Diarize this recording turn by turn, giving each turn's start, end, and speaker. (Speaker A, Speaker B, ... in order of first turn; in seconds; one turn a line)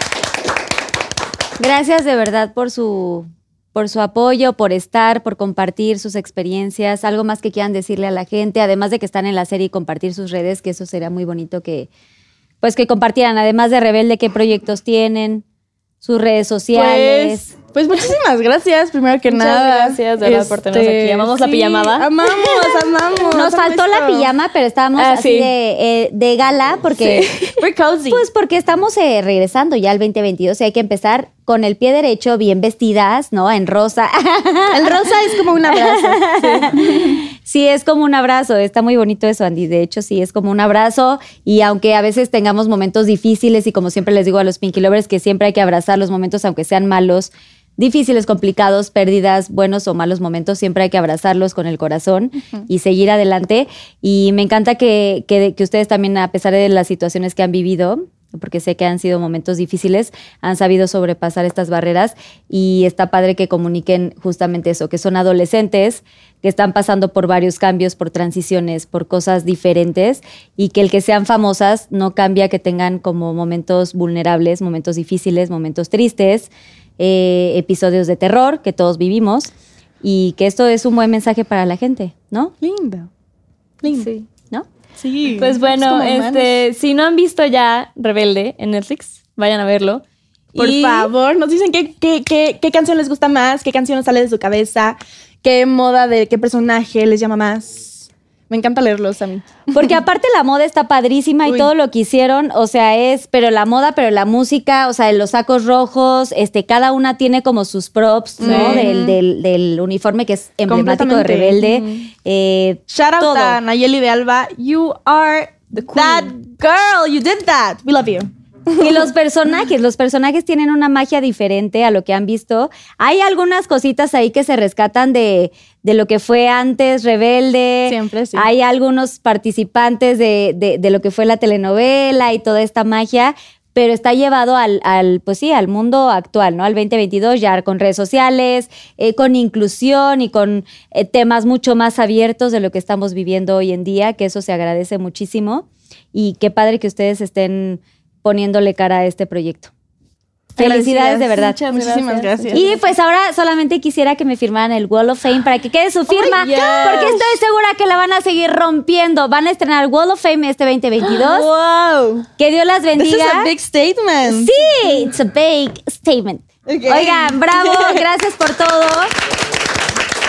Speaker A: 1.6-11.9
Speaker A: 12.6-15.4
Speaker A: 16.0-17.5
Speaker B: 16.7-24.3
Speaker C: 19.3-22.1
Speaker A: 23.3-27.3
Speaker C: 24.9-25.5
Speaker C: 27.0-27.6
Speaker B: 27.6-28.2
Speaker A: 28.1-82.5
Speaker B: 34.7-37.2
Speaker B: 82.6-83.1
Speaker B: 83.8-84.1
Speaker C: 83.8-84.3
Speaker B: 85.0-86.6
Speaker C: 85.4-90.0
Speaker C: 90.5-91.1
Speaker B: 90.5-99.9
Speaker A: 99.7-113.6
Speaker B: 101.4-101.7
Speaker B: 108.4-109.1
Speaker C: 108.4-109.1
Speaker B: 110.7-111.8
Speaker B: 112.9-119.0
Speaker C: 115.7-116.3
Speaker A: 118.8-149.7
Speaker B: 127.9-128.5
Speaker A: 150.6-151.6
Speaker B: 150.6-152.6
Speaker C: 150.6-152.7
Speaker A: 152.5-161.5
Speaker B: 156.1-157.2
Speaker C: 156.2-157.2
Speaker B: 161.1-162.2
Speaker A: 162.4-163.5
Speaker B: 163.0-164.5
Speaker A: 164.2-169.1
Speaker B: 166.7-168.0